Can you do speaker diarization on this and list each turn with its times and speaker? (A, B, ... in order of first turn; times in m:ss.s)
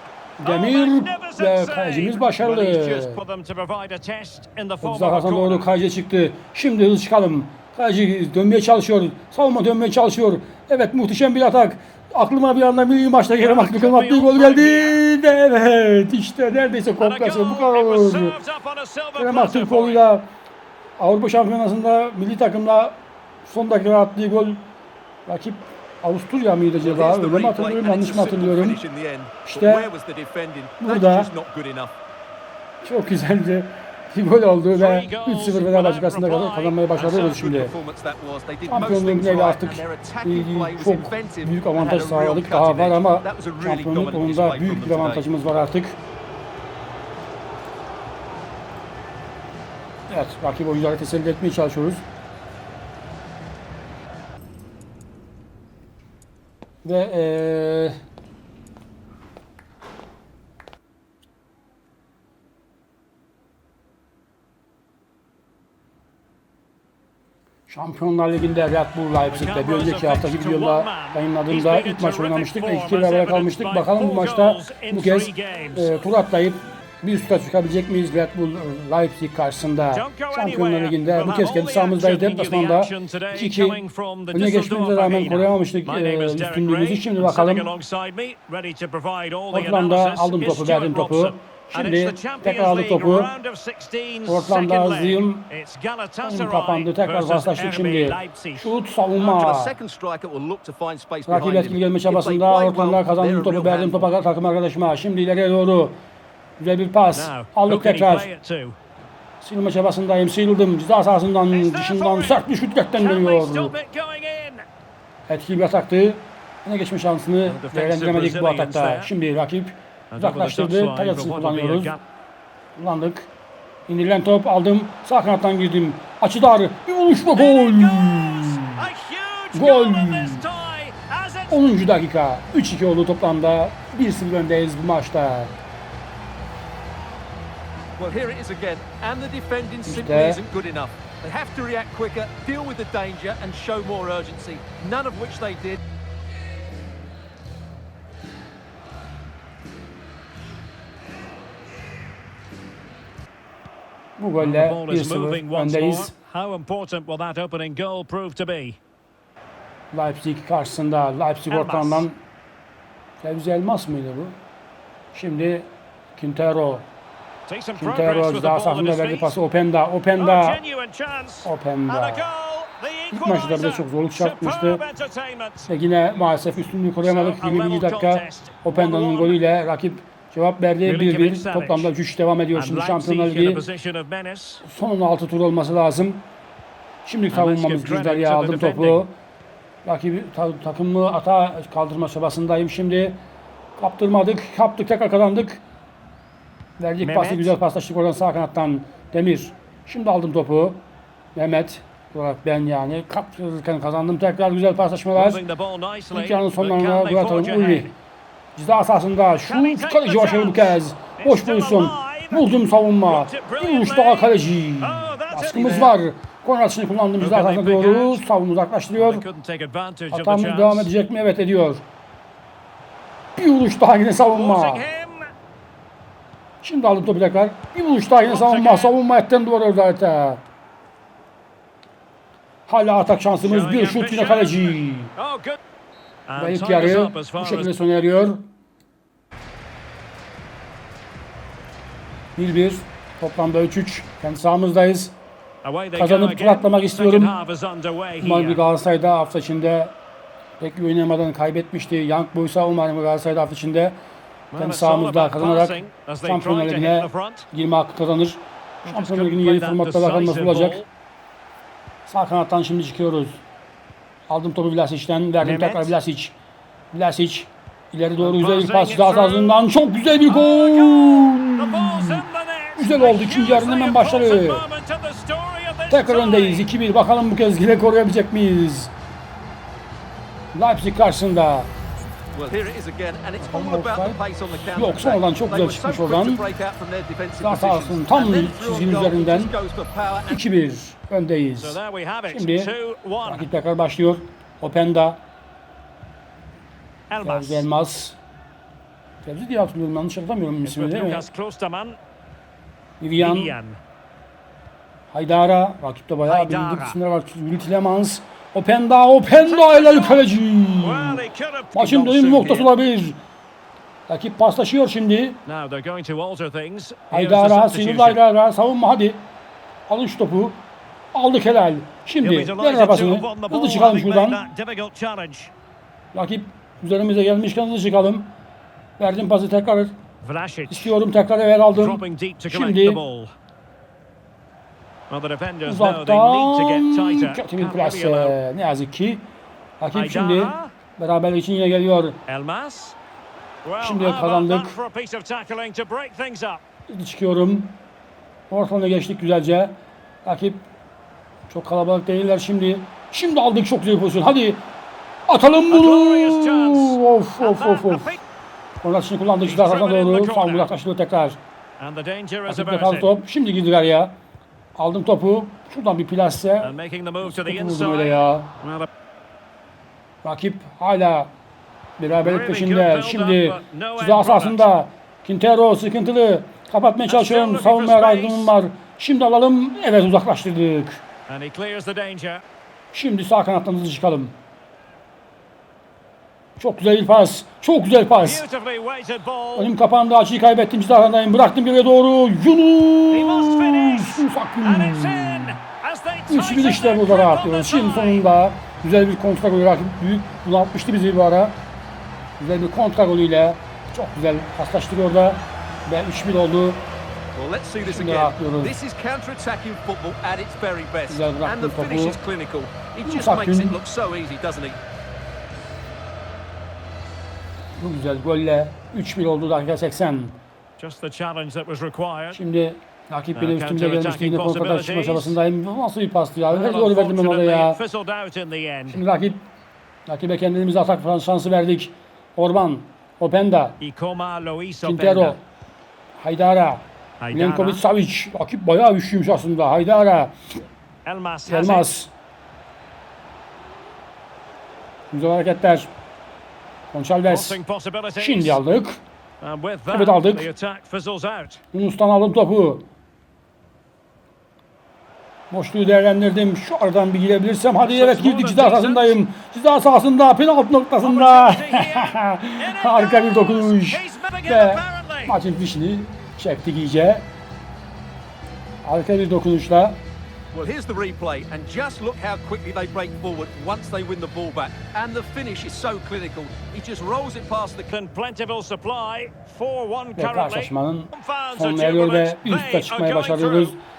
0:00.4-0:03.2 A
0:00.4-0:05.7 B
0:04.8-0:18.4 A
0:13.4-0:15.0 B
0:17.0-0:20.0 B
0:19.2-0:20.3 A
0:21.0-0:24.6 A
0:25.2-0:28.8 A
0:26.8-0:31.9 C
0:29.4-0:29.9 A
0:30.8-0:31.3 A
0:32.8-0:37.7 A
0:34.7-0:36.9 B
0:37.0-0:45.3 C
0:38.6-0:46.0 A
0:50.1-0:52.0 A
0:56.8-0:58.0 A
1:07.7-1:23.8 A
1:09.2-1:16.0 B
1:19.9-1:38.7 B
1:24.3-1:27.7 A
1:29.5-1:33.3 A
1:34.2-1:35.5 A
1:36.2-1:39.8 A
1:39.2-1:44.1 C
1:41.3-1:46.0 A
1:46.6-1:48.3 A
1:47.1-1:48.8 B
1:49.4-1:53.7 A
1:51.5-1:54.6 B
1:55.3-2:01.9 A
1:57.4-1:59.1 B
2:00.1-2:02.0 B
2:02.8-2:03.3 A
2:03.9-2:08.8 A
2:07.4-2:11.6 B
2:09.5-2:10.4 A
2:11.5-2:15.5 A
2:18.0-2:25.8 C
2:19.8-2:20.4 A
2:34.2-2:36.1 A
2:34.4-2:38.8 B
2:39.9-2:42.2 A
2:41.5-2:42.0 B
2:43.2-2:44.4 A
2:45.1-2:46.9 A
2:47.5-2:49.4 B
2:47.8-2:50.6 A
2:50.2-2:55.7 B
2:51.4-2:52.3 A
2:53.1-2:54.8 A
2:55.7-3:03.6 A
2:57.0-2:59.4 B
3:00.8-3:01.9 B
3:02.5-3:04.6 B
3:04.6-3:06.2 A
3:07.0-3:09.1 A
3:07.3-3:09.1 B
3:09.8-3:13.2 A
3:13.8-3:15.6 A
3:16.8-3:20.8 A
3:17.0-3:17.6 B
3:21.3-3:25.4 A
3:25.1-3:27.9 B
3:26.1-3:27.9 A
3:28.6-3:39.2 A
3:29.4-3:32.5 B
3:33.0-3:35.9 B
3:37.2-3:38.2 B
3:38.9-3:40.9 B
3:40.1-3:41.8 A
3:43.4-3:44.8 A
3:44.3-3:45.3 B
3:46.6-3:50.4 A
3:48.2-3:49.0 B
3:52.7-3:55.1 A
3:53.4-3:55.6 B
3:56.3-3:57.7 B
3:56.4-3:58.4 A
4:02.4-4:05.1 A
4:05.6-4:08.6 B
4:06.0-4:07.3 A
4:08.2-4:09.9 A
4:10.6-4:14.0 A
4:14.5-4:17.5 B
4:14.5-4:20.8 A
4:18.8-4:20.9 B
4:22.1-4:23.4 A
4:24.3-4:26.3 A
4:25.4-4:25.9 B
4:26.9-4:32.2 A
4:28.2-4:29.7 B
4:30.3-4:36.7 B
4:32.8-4:34.6 A
4:35.9-4:38.9 A
4:40.5-4:41.7 A
4:42.3-4:50.4 C
4:43.4-4:46.4 A
4:47.4-4:49.5 A
4:50.3-4:52.7 A
4:51.6-4:53.5 B
4:53.2-4:55.2 A
4:57.1-4:57.6 B
4:57.2-4:58.2 A
4:59.2-5:01.2 A
5:00.6-5:02.0 B
5:03.0-5:03.5 A
5:03.2-5:03.8 B
5:05.1-5:13.2 A
5:06.2-5:07.0 B
5:09.3-5:10.2 B
5:10.8-5:12.7 B
5:14.1-5:15.4 A
5:15.4-5:18.2 B
5:17.1-5:19.2 A
5:19.9-5:20.6 A
5:21.1-5:24.4 A
5:22.2-5:25.5 B
5:26.1-5:28.3 A
5:29.0-5:29.9 A
5:30.2-5:30.9 B
5:30.7-5:33.0 A
5:31.7-5:33.3 B
5:35.1-5:38.4 B
5:35.6-5:39.2 A
5:39.8-5:42.2 A
5:39.9-5:40.7 B
5:42.3-5:43.0 B
5:43.6-5:46.6 B
5:43.8-5:44.8 A
5:46.9-5:47.8 A
5:48.5-5:50.6 A
5:51.5-5:54.6 A
5:55.3-5:58.1 A
5:55.7-5:58.2 B
5:58.8-6:01.4 A
5:59.4-6:00.7 B
6:01.8-6:03.2 B
6:02.5-6:04.2 A
6:04.7-6:08.5 A
6:06.6-6:08.9 B
6:10.2-6:11.3 A
6:12.0-6:21.0 A
6:12.2-6:14.7 B
6:17.1-6:18.5 B
6:21.3-6:22.4 B
6:22.9-6:24.3 A
6:26.6-6:28.4 A
6:28.2-6:29.7 B
6:29.6-6:35.6 A
6:33.1-6:38.3 B
6:36.3-6:41.6 A
6:42.4-6:46.8 A
6:47.3-6:54.8 C
6:47.8-6:48.7 A
6:51.1-6:52.2 A
6:53.0-6:53.8 A
6:57.8-7:00.4 A
7:00.8-7:02.4 B
7:02.3-7:07.8 A
7:03.3-7:05.4 B
7:06.5-7:09.0 B
7:08.9-7:09.4 A
7:10.1-7:13.8 A
7:13.8-7:15.4 B
7:14.8-7:15.4 A
7:16.2-7:20.3 A
7:17.2-7:17.8 B
7:21.0-7:22.0 B
7:21.4-7:22.1 A
7:25.1-7:25.9 A
7:26.9-7:27.6 A
7:27.3-7:28.6 B
7:28.2-7:29.0 A
7:29.4-7:31.6 B
7:29.9-7:30.5 A
7:31.7-7:32.8 A
7:35.5-7:47.3 A
7:37.8-7:39.2 B
7:41.0-7:45.4 B
7:48.8-7:50.0 A
7:50.5-7:57.9 C
7:57.9-8:03.8 B
8:00.2-8:03.8 A